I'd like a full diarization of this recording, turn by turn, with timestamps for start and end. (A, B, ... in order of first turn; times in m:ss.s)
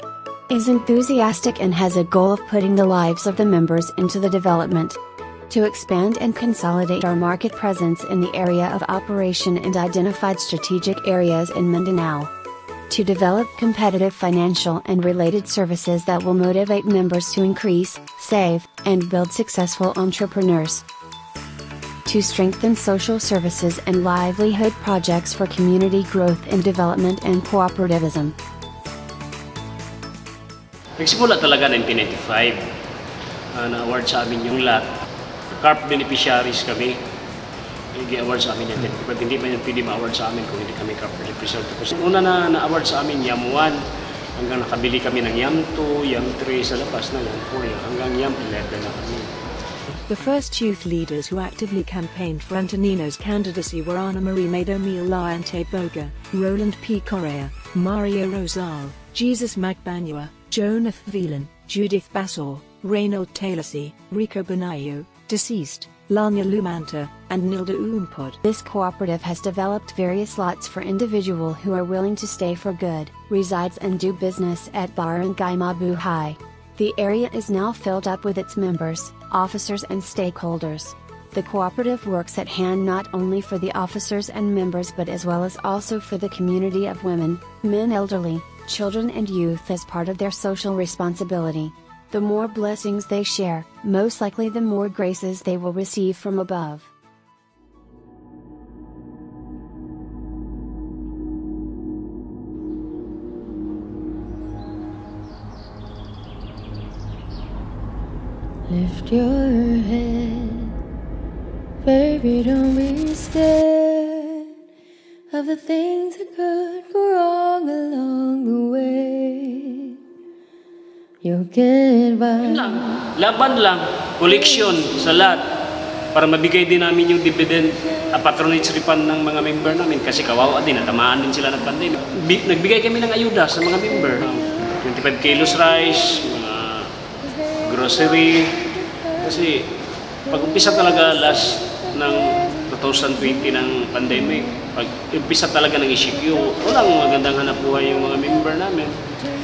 0:00.5-0:05.0 A
0:05.5-0:12.3 A
0:12.9-0:20.8 A
0:22.1-0:28.4 A
0:31.0-0:32.6 B
0:33.5-0:34.8 B
0:35.6-0:37.0 B
0:37.9-0:43.8 B
0:44.4-0:49.3 B
0:49.9-1:08.4 C
1:08.4-1:36.9 A
1:48.7-1:50.8 D
1:51.8-1:54.5 D
1:55.3-2:00.0 D
2:01.2-2:03.1 D
2:02.4-2:05.4 B
2:06.1-2:16.9 B
2:17.6-2:19.7 B
2:20.3-2:29.0 B